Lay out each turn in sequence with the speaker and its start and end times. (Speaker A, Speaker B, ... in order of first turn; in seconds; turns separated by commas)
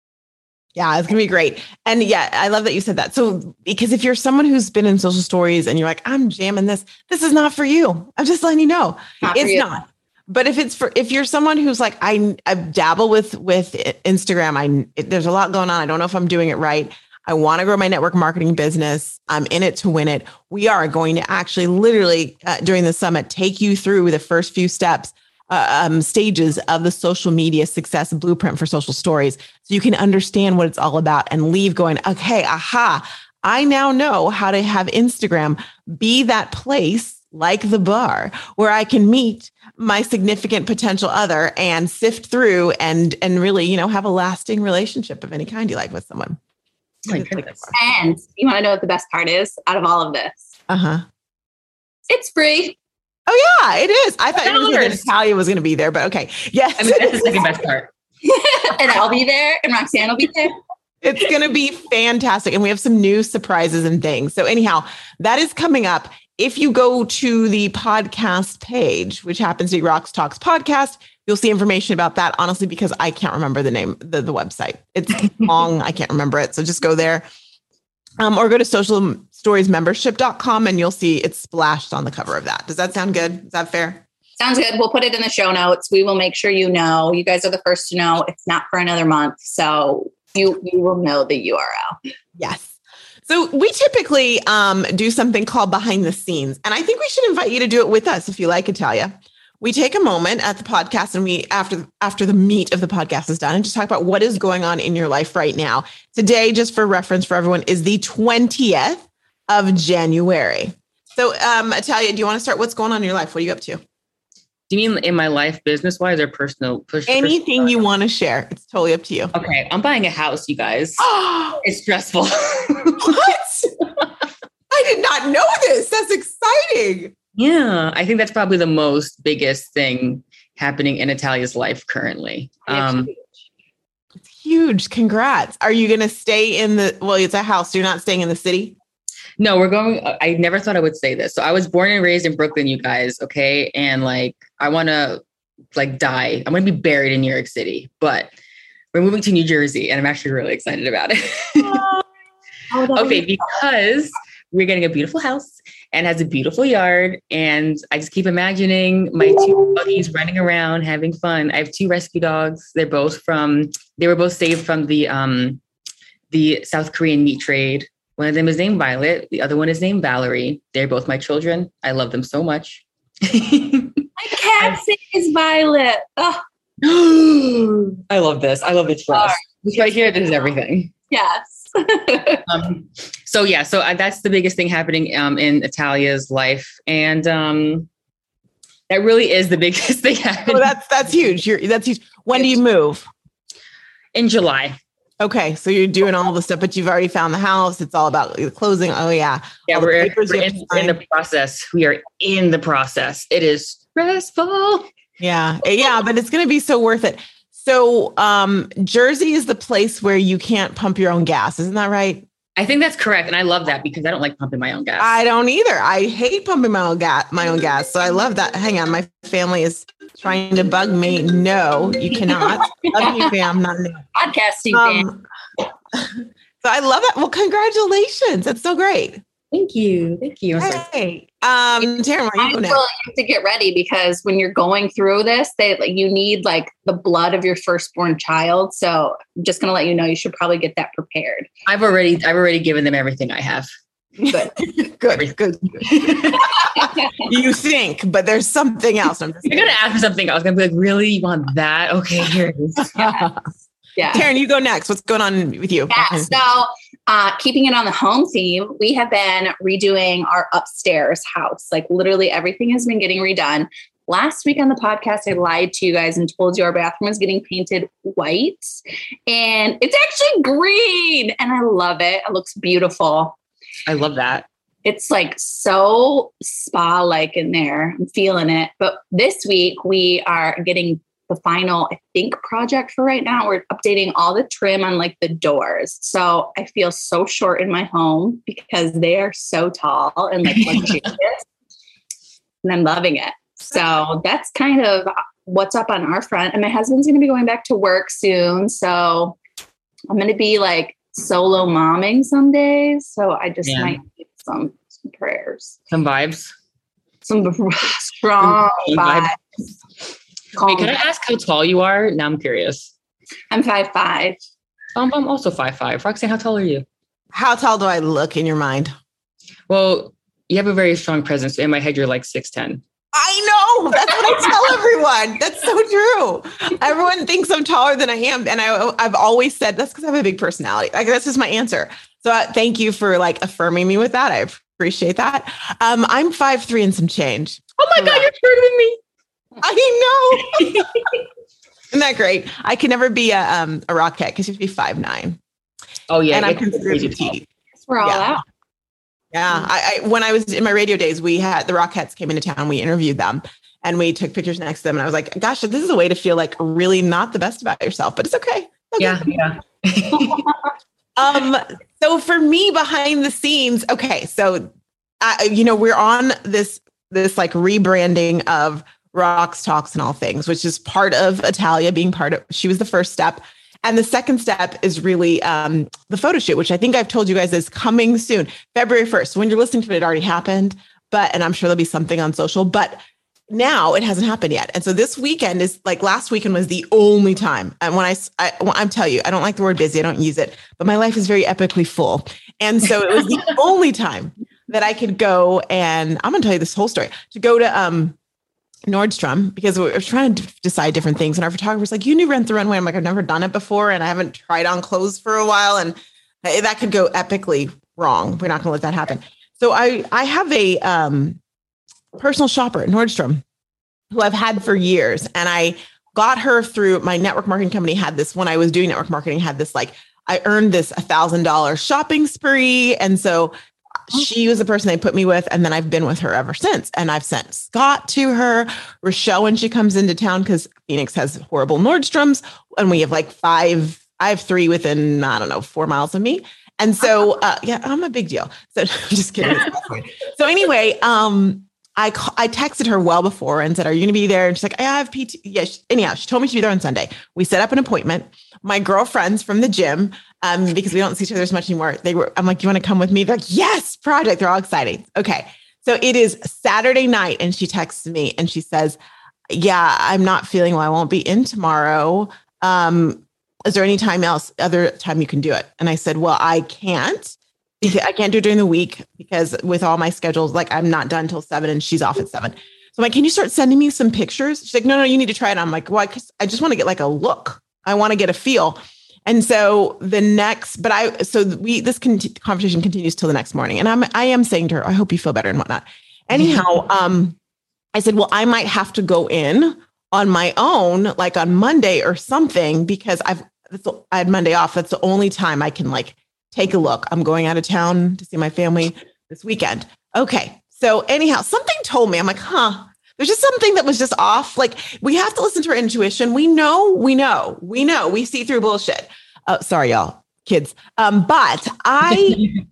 Speaker A: 0.8-46.4, Speaker B: 9.2-9.7, Speaker A: 47.0-47.7, Speaker C: 47.1-47.6, Speaker B: 47.7-50.5, Speaker A: 50.7-51.0, Speaker B: 52.1-52.8, Speaker A: 53.3-57.5, Speaker C: 54.4-55.0, Speaker C: 56.8-57.9, Speaker B: 58.2-60.6, Speaker A: 61.0-77.2, Speaker A: 78.2-84.0, Speaker B: 84.4-92.0, Speaker A: 92.4-92.7, Speaker A: 93.3-113.8, Speaker C: 114.7-117.5, Speaker A: 117.1-119.3, Speaker C: 119.3-121.0, Speaker A: 121.0-121.6, Speaker C: 121.6-123.3, Speaker A: 123.0-123.8, Speaker A: 124.7-127.1, Speaker C: 127.3-133.1, Speaker B: 132.7-133.1, Speaker A: 134.2-138.8, Speaker C: 139.4-145.2, Speaker C: 145.7-148.3, Speaker C: 148.9-151.9, Speaker A: 151.7-152.0, Speaker B: 152.7-153.2, Speaker C: 152.9-165.6, Speaker C: 166.3-174.8, Speaker B: 174.2-176.4, Speaker C: 176.8-180.9, Speaker B: 181.1-182.4, Speaker C: 182.4-187.9, Speaker C: 188.9-190.7, Speaker A: 190.4-193.1, Speaker C: 194.1-194.8, Speaker A: 195.2-201.0, Speaker C: 199.7-204.8, Speaker A: 205.2-212.2, Speaker C: 212.6-215.2, Speaker A: 215.0-224.0, Speaker B: 222.4-223.3, Speaker B: 224.1-225.1, Speaker A: 224.7-225.2, Speaker A: 225.9-229.2, Speaker C: 229.5-230.8, Speaker A: 230.6-232.8, Speaker B: 232.4-241.5, Speaker C: 241.7-243.7, Speaker A: 244.2-249.8, Speaker C: 245.1-246.5, Speaker C: 249.4-253.2, Speaker A: 252.8-253.5, Speaker B: 254.0-254.2, Speaker A: 254.1-256.4, Speaker B: 255.9-273.4, Speaker C: 273.9-274.5, Speaker B: 274.8-291.4, Speaker C: 290.5-290.9, Speaker B: 292.6-299.4, Speaker B: 300.1-305.8, Speaker C: 303.6-304.0, Speaker C: 305.9-306.5, Speaker B: 307.2-309.4, Speaker C: 308.4-309.3, Speaker B: 310.5-311.0, Speaker C: 310.6-312.9, Speaker B: 313.5-314.4, Speaker C: 314.9-316.8, Speaker A: 317.3-318.9, Speaker C: 319.7-322.8, Speaker A: 323.1-338.3, Speaker C: 337.8-339.0, Speaker A: 339.6-340.9, Speaker C: 340.4-341.1, Speaker A: 341.9-345.4, Speaker C: 346.1-347.3, Speaker A: 346.3-347.5, Speaker B: 347.8-348.4, Speaker A: 348.0-348.4, Speaker A: 349.3-359.4, Speaker C: 359.0-360.5, Speaker A: 361.1-383.0, Speaker A: 383.5-398.1, Speaker A: 398.9-411.4, Speaker A: 412.1-413.4, Speaker A: 414.1-423.5, Speaker A: 424.1-459.0, Speaker A: 459.5-487.4, Speaker A: 487.9-512.5